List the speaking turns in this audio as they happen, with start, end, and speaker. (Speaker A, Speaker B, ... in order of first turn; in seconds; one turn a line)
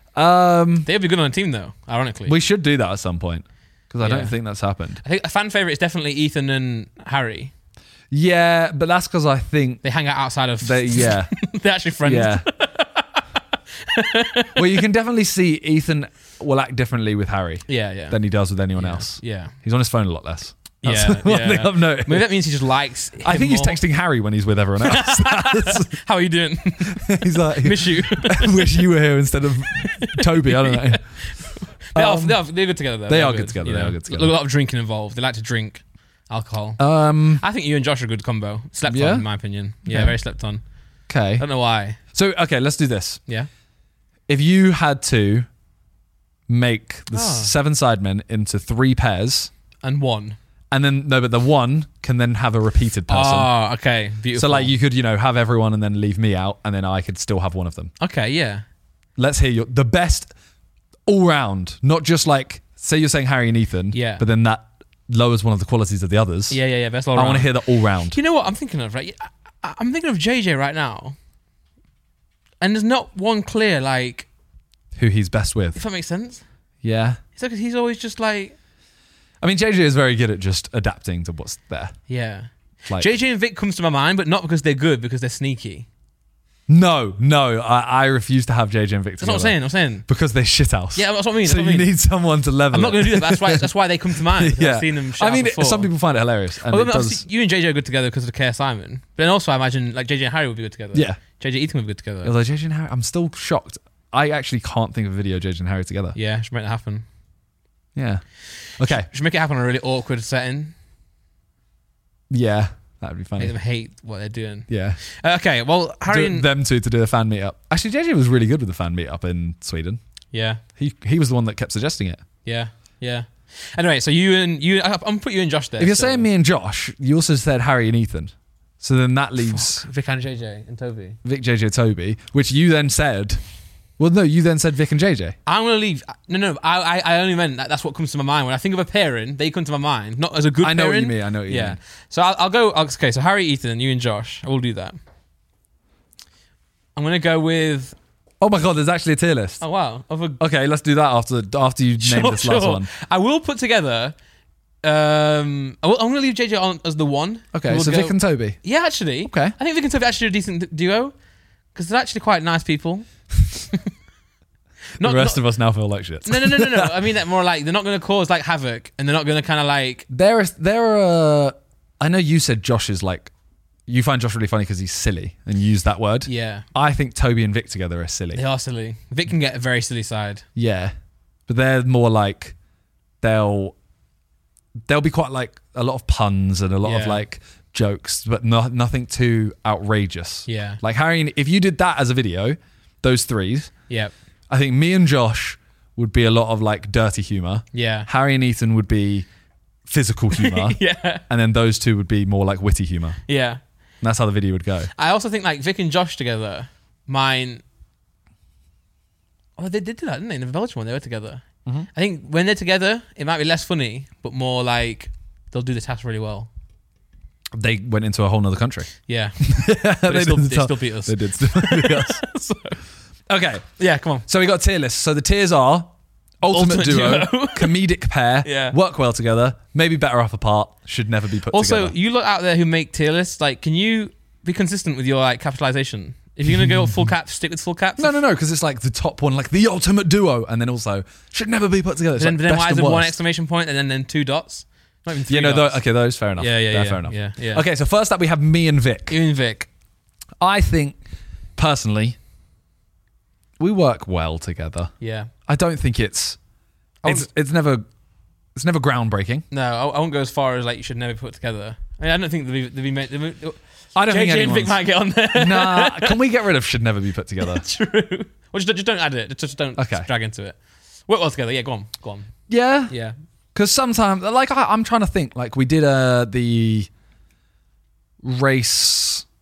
Speaker A: 0.1-0.9
Speaker B: 0.8-2.3
Speaker A: 2.2-5.0
Speaker B: 4.0-4.3
Speaker B: 5.0-7.5
Speaker A: 8.1-9.8
Speaker B: 9.8-13.2
Speaker A: 10.6-11.5
Speaker A: 12.0-12.4
Speaker B: 13.8-14.8
Speaker A: 14.6-22.4
Speaker B: 17.7-18.2
Speaker B: 18.7-19.5
Speaker B: 20.8-23.8
Speaker A: 23.2-25.9
Speaker B: 24.8-28.9
Speaker A: 26.9-31.2
Speaker B: 29.7-40.6
Speaker A: 31.9-32.4
Speaker A: 33.1-34.3
Speaker A: 36.8-37.4
Speaker A: 38.9-39.3
Speaker A: 39.9-40.2
Speaker A: 41.1-41.4
Speaker B: 41.4-42.0
Speaker A: 42.1-43.2
Speaker A: 44.3-45.5
Speaker A: 46.5-49.5
Speaker B: 47.1-47.5
Speaker B: 49.8-50.4
Speaker A: 50.7-53.5
Speaker B: 53.1-54.7
Speaker A: 54.3-57.9
Speaker B: 58.0-58.6
Speaker A: 59.1-60.3
Speaker A: 61.0-66.6
Speaker B: 63.9-64.2
Speaker B: 66.5-71.2
Speaker A: 67.1-68.2
Speaker B: 72.6-74.3
Speaker A: 74.9-75.8
Speaker B: 75.7-76.4
Speaker A: 76.8-77.2
Speaker B: 77.3-78.5
Speaker A: 79.4-82.0
Speaker B: 82.1-85.9
Speaker A: 86.7-97.2
Speaker B: 89.2-90.0
Speaker B: 90.9-91.9
Speaker B: 92.7-95.9
Speaker B: 96.7-102.3
Speaker A: 100.9-101.2
Speaker A: 102.2-106.2
Speaker B: 106.1-107.0
Speaker A: 107.9-109.1
Speaker B: 108.5-110.7
Speaker A: 112.3-113.5
Speaker B: 113.4-116.5
Speaker A: 114.7-115.0
Speaker A: 116.1-120.0
Speaker B: 120.3-120.6
Speaker A: 120.7-122.2
Speaker B: 122.4-126.3
Speaker A: 125.8-129.8
Speaker B: 129.5-131.2
Speaker A: 131.2-133.4
Speaker A: 134.0-135.4
Speaker B: 135.4-145.0
Speaker A: 140.6-141.8
Speaker B: 146.9-148.0
Speaker A: 148.4-149.6
Speaker B: 149.6-150.4
Speaker A: 150.4-152.9
Speaker B: 152.0-154.1
Speaker B: 154.8-161.1
Speaker A: 157.5-158.6
Speaker A: 159.2-159.5
Speaker B: 161.7-163.1
Speaker B: 165.0-165.4
Speaker A: 165.0-166.9
Speaker B: 166.2-170.1
Speaker A: 170.1-173.3
Speaker A: 173.9-178.4
Speaker B: 176.2-176.7
Speaker B: 178.3-180.4
Speaker A: 180.6-180.9
Speaker A: 181.5-182.5
Speaker A: 183.2-183.7
Speaker A: 184.9-193.7
Speaker B: 186.8-187.2
Speaker B: 190.5-190.8
Speaker A: 194.5-199.3
Speaker B: 197.7-198.1
Speaker A: 199.8-203.2
Speaker B: 200.3-201.2
Speaker B: 203.3-203.6
Speaker A: 204.0-204.9
Speaker B: 204.9-207.6
Speaker B: 209.6-216.5
Speaker A: 217.5-222.2
Speaker B: 219.1-222.8
Speaker A: 223.3-223.7
Speaker B: 223.8-224.3
Speaker A: 224.2-231.9
Speaker B: 226.5-227.8
Speaker B: 228.4-228.8
Speaker B: 231.5-238.2
Speaker A: 236.6-236.9
Speaker A: 238.0-243.1
Speaker B: 242.2-245.8
Speaker A: 245.3-249.2
Speaker B: 246.4-247.6
Speaker B: 249.1-249.7
Speaker A: 250.4-251.0
Speaker A: 251.6-252.2
Speaker A: 253.6-254.9
Speaker B: 255.0-255.3
Speaker A: 255.5-256.4
Speaker A: 257.0-257.8
Speaker A: 258.5-259.4
Speaker B: 259.5-266.2
Speaker A: 263.9-264.8
Speaker A: 265.3-267.6
Speaker B: 267.4-272.3
Speaker A: 269.8-270.1
Speaker A: 272.5-272.9
Speaker B: 272.9-273.1
Speaker A: 273.5-276.9
Speaker A: 278.2-279.2